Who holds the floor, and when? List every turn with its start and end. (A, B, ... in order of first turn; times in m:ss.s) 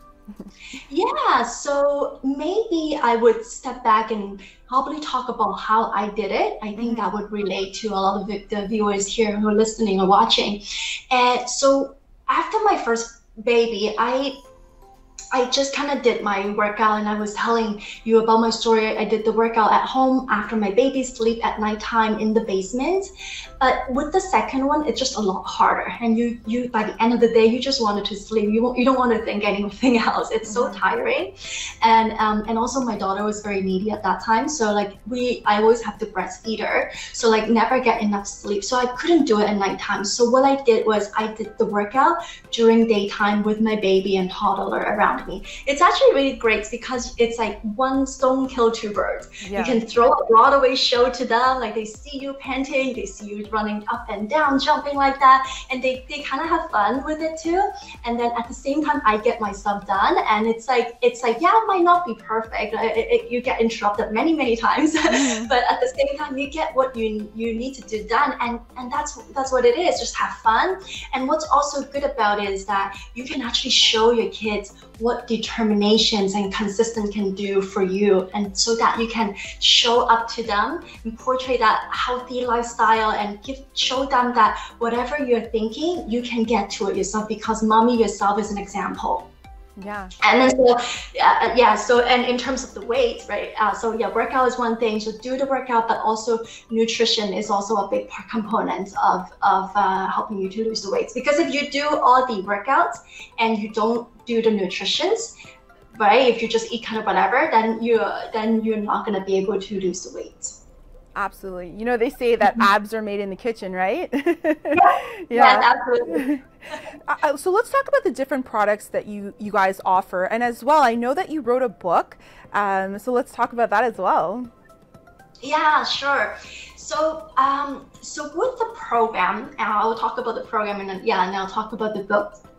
0:00.9-0:14.4 A
0:06.8-0:07.0 B
0:15.3-0:23.1 A
0:23.6-1:29.3 A
0:30.5-0:30.9 B
0:49.4-0:49.8 B
1:05.1-1:05.5 B
1:29.8-1:30.1 B
1:30.2-1:45.3 A
1:45.9-1:50.6 A
1:51.2-1:56.4 B
1:54.7-1:56.2 A
1:57.1-2:04.5 B
2:05.4-2:12.4 A